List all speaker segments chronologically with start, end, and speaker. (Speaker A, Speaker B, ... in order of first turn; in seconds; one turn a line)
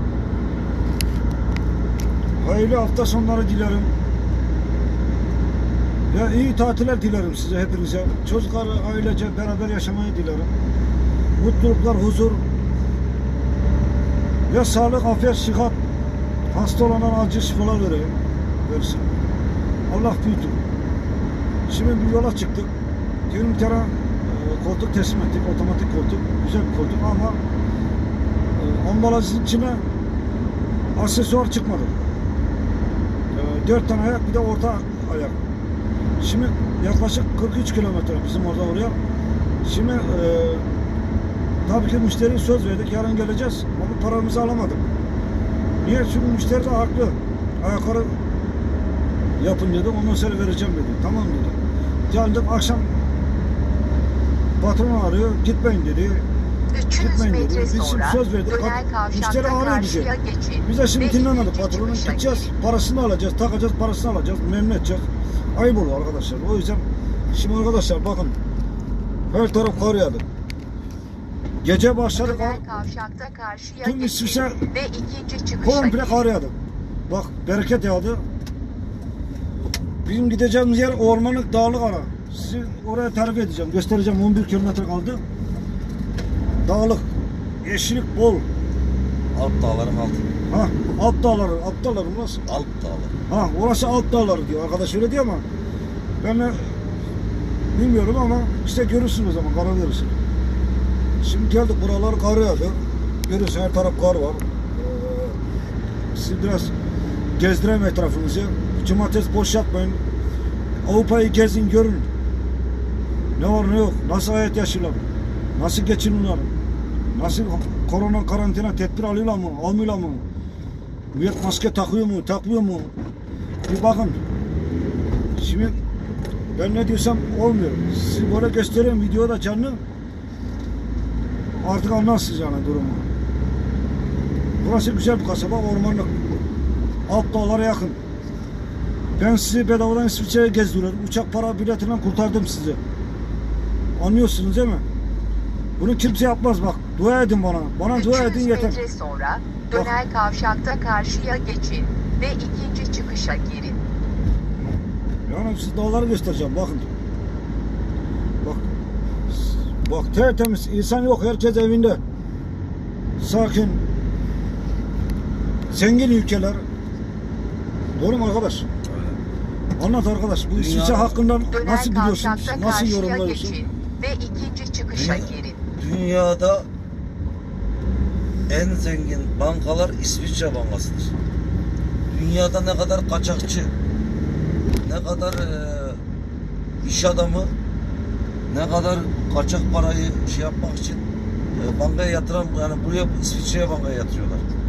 Speaker A: 2.4-3.9
Speaker A: 6.1-10.5
Speaker A: 11.4-12.4
Speaker A: 14.5-15.8
Speaker A: 16.5-19.1
Speaker A: 19.9-20.6
Speaker A: 21.7-22.7
Speaker A: 23.3-27.4
Speaker A: 28.5-29.8
Speaker A: 30.9-31.9
Speaker A: 33.3-35.4
Speaker A: 36.2-39.0
Speaker A: 39.6-40.7
Speaker A: 41.6-44.8
Speaker A: 45.8-48.2
Speaker A: 49.4-51.6
Speaker A: 52.1-52.9
Speaker A: 54.6-56.2
Speaker B: 56.7-62.5
Speaker A: 57.0-60.1
Speaker A: 60.6-68.4
Speaker A: 69.3-70.2
Speaker A: 71.6-72.6
Speaker B: 72.2-76.2
Speaker A: 73.8-74.6
Speaker A: 75.6-76.5
Speaker A: 77.1-78.2
Speaker A: 80.0-85.2
Speaker A: 86.6-87.1
Speaker A: 87.6-88.4
Speaker C: 89.3-90.2
Speaker A: 90.5-92.5
Speaker C: 92.5-93.1
Speaker A: 93.3-95.4
Speaker A: 96.2-96.8
Speaker A: 97.7-100.1
Speaker A: 101.2-105.4
Speaker A: 106.1-106.7
Speaker A: 107.4-110.0
Speaker A: 110.8-112.1
Speaker A: 113.4-115.0
Speaker A: 115.5-116.5
Speaker A: 117.1-120.2
Speaker A: 121.1-122.9
Speaker A: 123.7-124.2
Speaker A: 125.4-125.8
Speaker A: 126.5-129.8
Speaker A: 131.6-133.0
Speaker A: 134.6-136.1
Speaker A: 137.1-138.0
Speaker A: 139.2-142.8
Speaker A: 144.0-144.8
Speaker A: 145.8-148.8
Speaker B: 147.9-153.8
Speaker A: 155.3-156.9
Speaker A: 159.3-162.0
Speaker A: 163.2-163.8
Speaker A: 165.7-166.6
Speaker A: 168.0-168.7
Speaker C: 168.8-169.2
Speaker A: 169.8-173.6
Speaker C: 170.5-171.2
Speaker B: 171.5-175.6
Speaker C: 174.9-176.7
Speaker C: 178.5-181.1
Speaker C: 182.1-183.7
Speaker C: 184.8-186.0
Speaker C: 186.8-187.5
Speaker C: 188.5-191.0
Speaker C: 191.5-194.4